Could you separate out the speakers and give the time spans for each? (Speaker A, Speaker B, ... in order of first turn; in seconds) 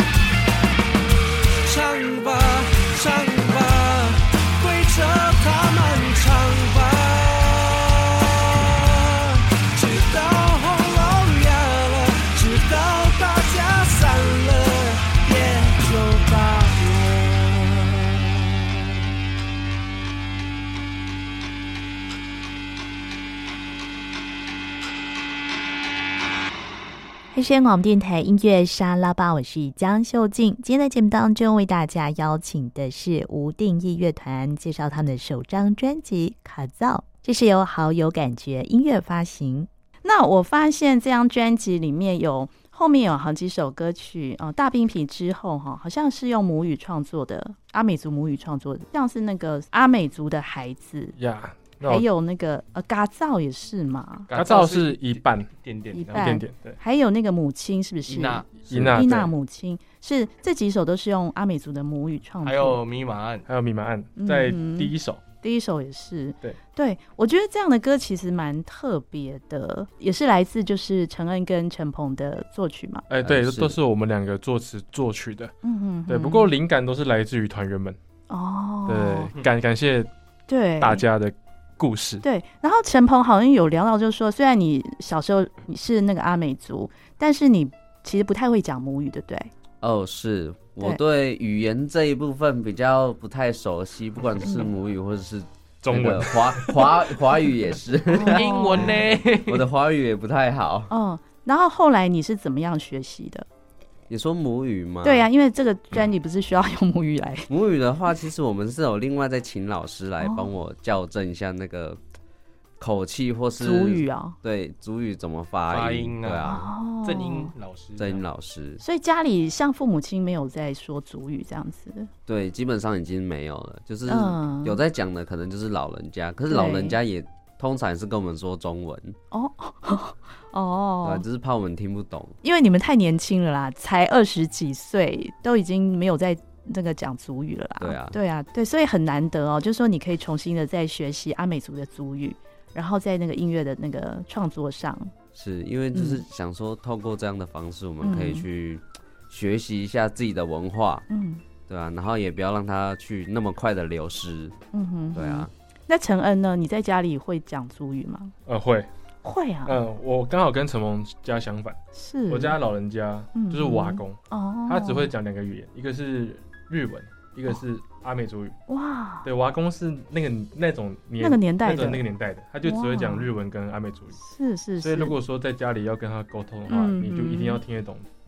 Speaker A: 1.6-18.1
Speaker B: 27.3-39.7
Speaker C: 40.0-51.1, 51.8-54.3, 55.9-62.8, 64.2-73.0, 75.6-76.5, 78.3-79.3, 80.5-81.0, 82.2-89.5, 98.1-99.0, 100.9-103.5, 105.0-107.5, 110.2-110.5, 113.6-114.3, 116.4-117.5, 118.8-122.1, 124.1-124.8, 126.5-127.0, 129.3-131.2, 132.4-145.1, 145.9-146.2, 148.0-148.4, 151.1-151.4, 154.7-158.3, 159.2-159.8, 161.9-162.6, 163.3-165.1, 168.7-169.3, 171.2-172.0, 172.6-173.3, 174.2-175.2, 176.7-177.6
Speaker D: 51.2-52.1, 54.3-55.5, 56.1-56.8, 58.7-59.3, 63.5-65.2, 73.1-75.5, 76.1-78.0, 78.9-80.1, 80.8-82.2, 95.8-96.8, 158.4-158.9, 159.7-168.6, 169.2-174.2, 174.8-178.1
Speaker E: 54.3-56.4, 58.1-58.8, 62.4-63.5, 98.2-99.7, 115.7-118.2
Speaker F: 73.2-73.7, 89.8-98.8, 99.5-100.9, 104.1-105.3, 107.5-112.0, 112.8-116.6, 118.0-118.8, 122.2-129.1, 131.0-132.3, 137.8-138.2, 145.3-151.0, 151.7-154.6, 155.1-155.5